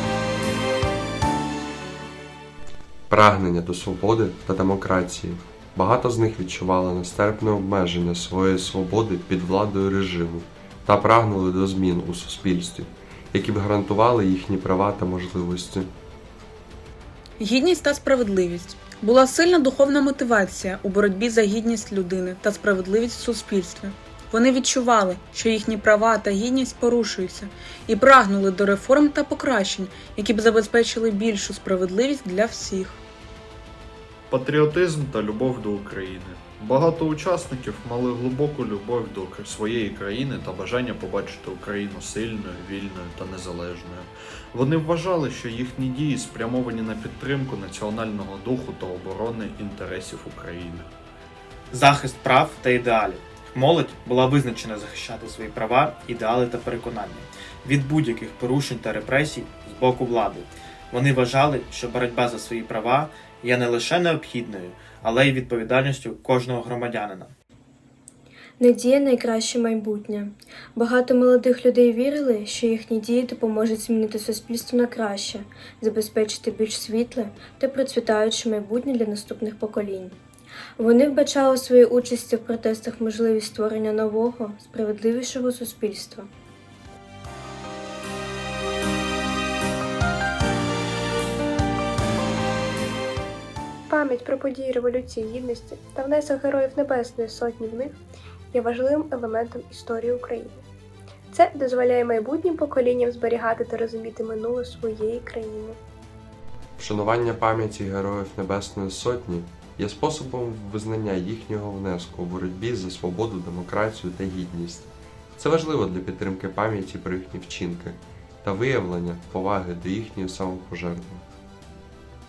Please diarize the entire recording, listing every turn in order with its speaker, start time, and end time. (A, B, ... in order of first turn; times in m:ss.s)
0:03.1-0:15.9 A
0:17.4-0:33.0 B
0:34.3-0:50.9 C
0:51.7-1:07.3 D
1:08.6-1:20.2 E
1:20.8-1:26.3 E
1:33.9-1:38.0 F
1:38.5-1:40.6 F
1:41.3-1:45.8 F
1:46.8-2:01.2 A